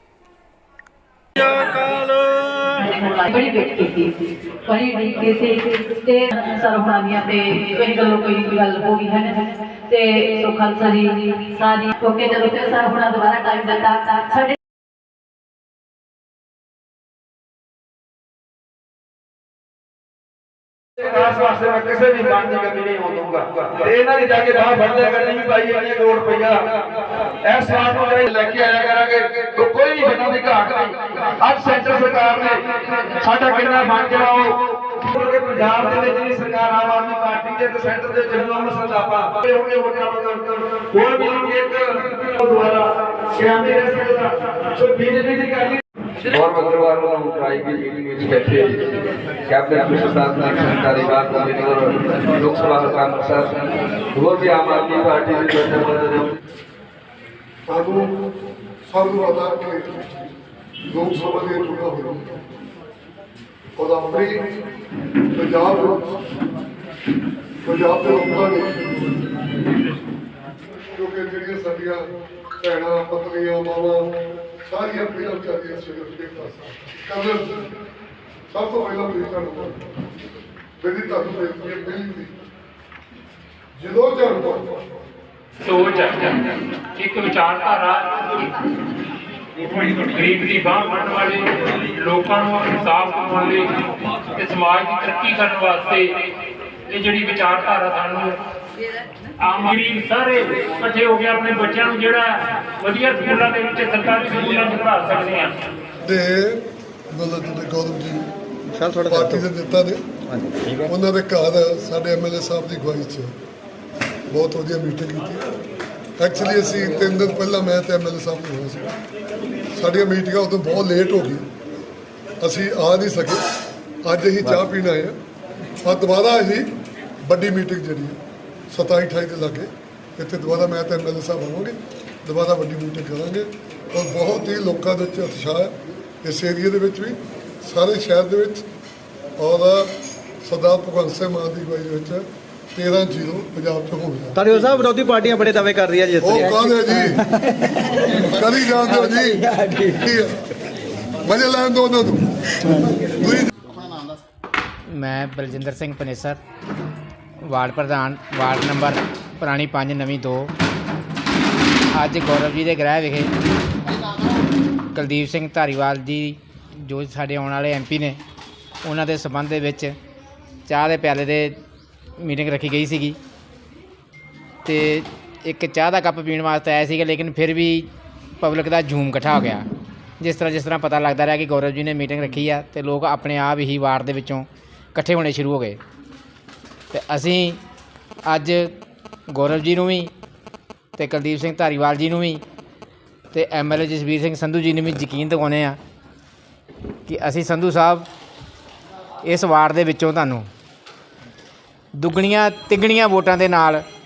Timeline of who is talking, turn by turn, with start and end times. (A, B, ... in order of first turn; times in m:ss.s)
0:02.8-0:14.6 A
0:21.0-0:26.8 B
0:27.4-0:45.8 B
0:44.9-0:45.4 C
0:46.3-0:56.3 C
0:57.7-0:58.1 D
0:58.9-1:00.0 D
1:00.9-1:02.4 D
1:03.8-1:04.6 D
1:05.3-1:06.0 D
1:07.6-1:08.8 D
1:10.9-1:12.1 D
1:12.6-1:14.1 D
1:14.6-1:17.6 D
1:18.5-1:19.9 D
1:20.8-1:22.3 D
1:23.8-1:24.6 D
1:25.6-1:26.4 E
1:27.0-1:28.1 E
1:29.8-1:33.7 E
1:34.4-1:36.1 E
1:36.9-1:38.4 E
1:39.4-1:45.6 E
1:46.0-1:48.3 D
1:48.8-1:49.1 F
1:49.0-1:50.0 D
1:50.8-1:53.3 D
1:54.3-1:55.4 D
1:56.2-1:58.9 D
1:59.7-2:01.4 D
2:02.4-2:03.4 D
2:04.0-2:05.2 D
2:05.8-2:06.6 D
2:07.2-2:08.2 D
2:08.7-2:18.6 D
2:19.4-2:19.9 D
2:20.4-2:24.6 D
2:24.4-2:26.1 F
2:26.2-2:27.2 D
2:28.1-2:30.4 D
2:31.2-2:32.3 D
2:33.1-2:33.5 D
2:34.9-2:36.4 G
2:37.4-2:40.5 G
2:41.9-2:43.3 G
2:44.9-2:48.2 G
2:48.8-2:50.0 G
2:50.7-2:51.6 G
2:52.2-2:53.2 G
2:54.6-2:59.7 G
3:00.2-3:05.8 G
3:06.9-3:07.6 G
3:08.2-3:08.8 G
3:09.3-3:10.1 G
3:11.0-3:12.4 G
3:13.3-3:15.8 G
3:17.1-3:18.1 G
3:19.2-3:20.5 G
3:22.0-3:23.8 G